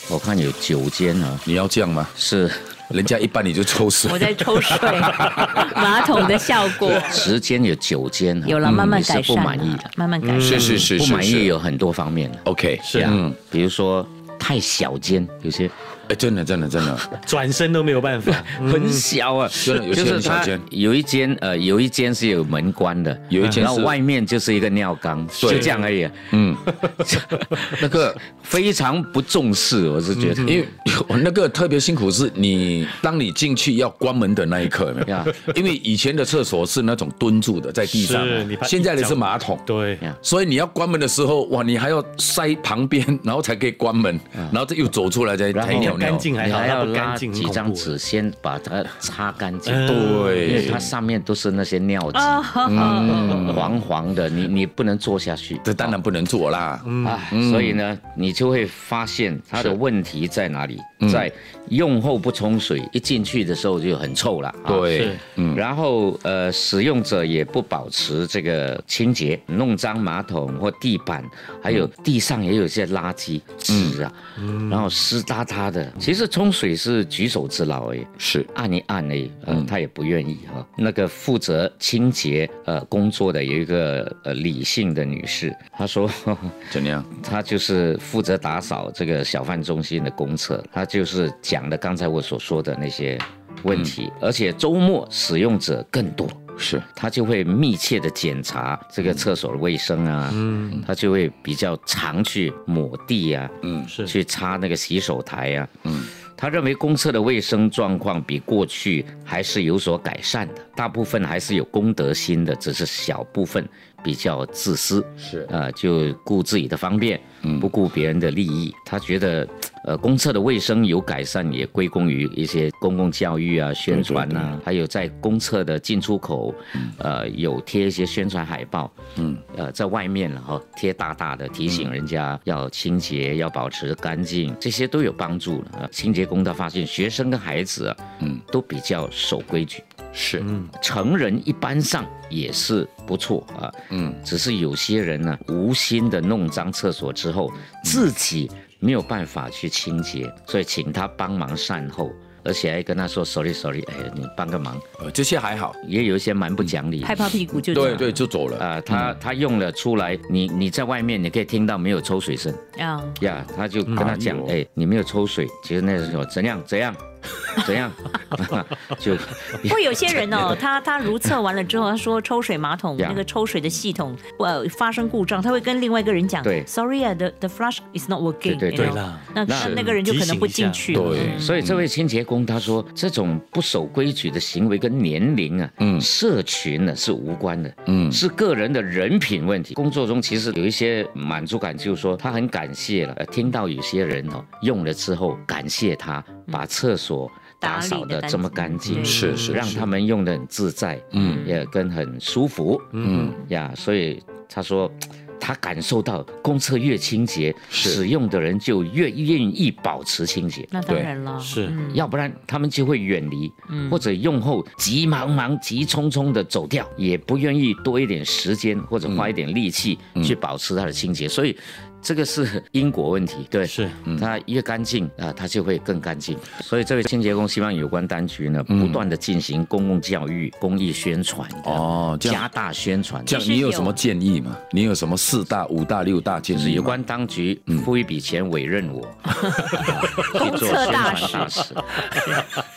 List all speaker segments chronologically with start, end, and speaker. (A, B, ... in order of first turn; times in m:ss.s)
0:00.1-0:01.4 A
0:01.5-0:02.1 B
0:02.2-0:02.7 A
0:02.9-0:05.9 B
0:04.1-0:07.2 C
0:06.8-0:09.9 A
0:08.4-0:10.7 C
0:08.6-0:09.0 B
0:10.2-0:10.9 D
0:10.4-0:11.5 B
0:10.6-0:15.7 A
0:12.4-0:13.4 B
0:12.8-0:13.2 D
0:16.1-0:17.1 B
0:17.2-0:19.0 D
0:18.4-0:30.6 A
0:19.5-0:20.6 B
0:23.3-0:24.0 B
0:25.4-0:25.7 B
0:25.4-0:25.8 D
0:26.3-0:26.6 B
0:27.7-0:28.2 B
0:30.4-0:39.6 B
0:35.1-0:35.4 A
0:37.9-0:40.0 D
0:40.2-0:46.3 B
0:45.5-0:56.0 A
0:45.7-0:47.9 D
0:49.7-0:50.6 D
0:49.8-0:50.9 B
0:52.1-0:53.5 C
0:52.6-0:53.8 B
0:55.6-0:57.8 B
0:56.8-0:57.2 D
0:57.0-1:36.4 A
1:01.0-1:01.3 B
1:04.7-1:05.6 B
1:13.7-1:14.0 B
1:18.2-1:18.5 B
1:26.7-1:27.1 B
1:36.6-1:36.8 B
1:36.9-2:08.9 A
1:40.4-1:40.7 D
1:43.6-1:43.9 B
1:43.9-1:44.1 D
1:55.2-1:55.5 B
1:57.4-1:57.7 B
2:03.9-2:04.6 B
2:09.2-2:09.4 B
2:09.5-2:19.9 A
2:11.7-2:11.9 B
2:20.1-2:20.5 B
2:20.4-2:20.7 D
2:20.8-2:34.8 A
2:23.9-2:24.2 B
2:35.0-2:35.8 B
2:35.8-2:37.3 A
2:37.0-2:38.2 C
2:37.7-2:39.2 B
2:38.6-2:42.6 A
2:42.8-2:43.2 C
2:43.2-2:50.6 A
2:43.9-2:44.6 B
2:49.6-3:01.6 C
2:56.4-2:56.7 A
2:58.4-2:59.9 A
2:58.7-3:01.3 D
2:59.5-2:59.9 B
3:00.9-3:01.9 B
3:01.1-3:30.7 A
3:05.8-3:06.1 B
3:07.9-3:08.2 B
3:17.6-3:19.5 C
3:18.9-3:19.8 B
3:21.1-3:21.5 B
3:21.2-3:21.4 C
3:23.0-3:23.4 B
3:27.7-3:28.0 B
3:30.7-3:32.1 C
3:30.9-3:31.1 B
3:31.4-3:31.8 D
3:31.9-3:53.4 A
3:33.7-3:34.0 C
3:43.7-3:44.0 D
3:48.7-3:49.0 B
3:51.6-3:52.4 B
3:53.3-3:54.0 C
3:53.3-3:57.0 B
3:56.5-4:02.0 A
4:00.3-4:01.6 C